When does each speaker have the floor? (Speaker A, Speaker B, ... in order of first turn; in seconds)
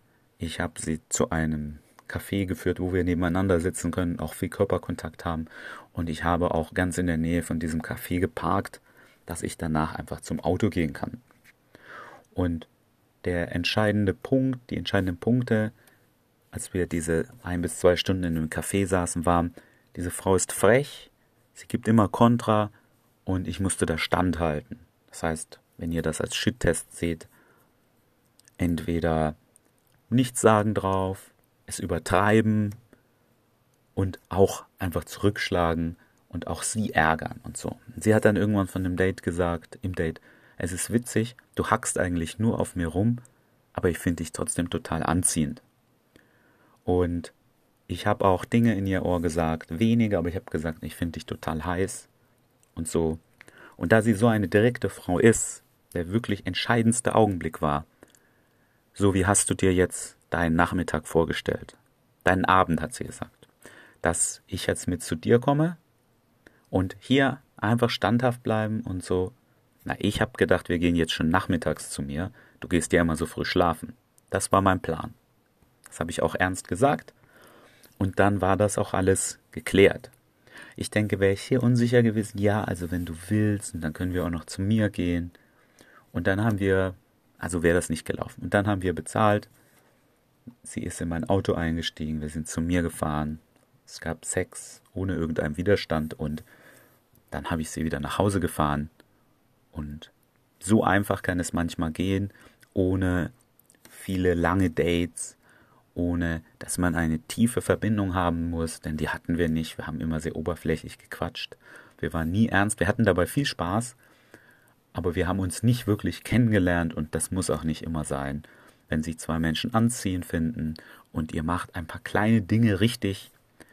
Speaker A: 0.4-11.2, 12.3-12.7, 13.2-15.7, 16.5-22.7, 23.2-27.3, 28.6-29.4, 30.1-32.8, 34.0-43.2, 43.7-45.6, 46.9-47.3, 47.9-52.1, 52.8-53.2, 53.8-57.9, 58.9-63.5, 64.0-65.8, 66.7-75.2, 75.9-77.1, 78.0-80.1, 80.8-85.3, 86.1-89.5, 90.6-96.4, 97.3-98.9, 99.7-103.3, 103.9-105.4, 105.9-114.0, 114.9-123.3